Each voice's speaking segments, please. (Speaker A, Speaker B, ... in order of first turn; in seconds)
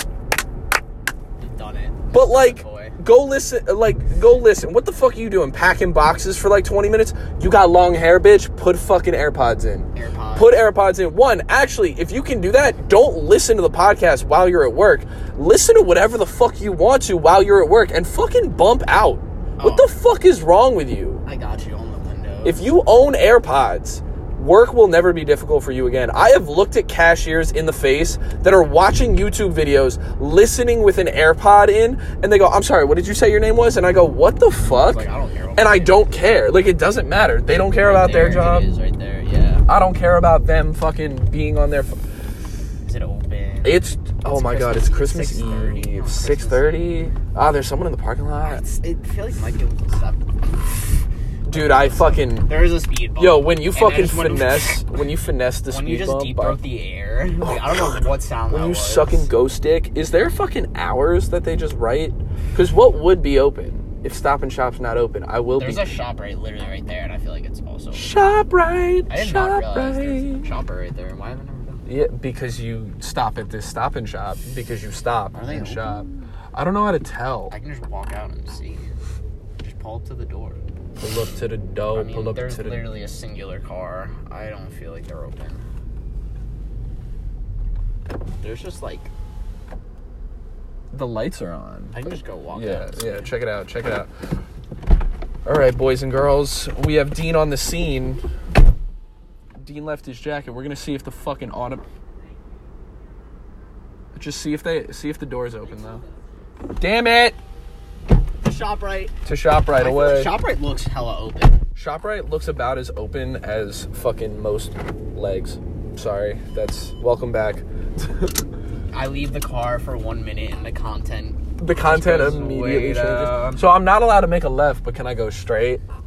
Speaker A: 1.4-3.0, 9.9-10.5, 19.6-19.9, 21.2-22.7, 34.8-36.0, 37.5-39.6, 42.8-47.3, 48.4-50.7, 51.5-54.8, 55.7-59.3, 65.6-68.2, 69.1-71.8, 75.3-76.2, 77.5-78.9, 79.6-80.7, 81.9-85.6, 88.4-89.1, 91.9-93.3, 108.4-109.2, 109.7-111.6, 118.9-123.7
Speaker B: 2.1-21.2, 22.4-38.7, 39.7-42.0, 43.6-48.6, 51.5-52.5, 53.2-56.6, 57.4-65.9, 67.9-70.5, 71.8-77.5, 81.0-82.8, 90.9-94.1, 95.4-98.2, 99.6-101.8, 104.1-106.0, 106.8-107.4, 109.2-110.3, 111.8-118.4, 121.6-125.8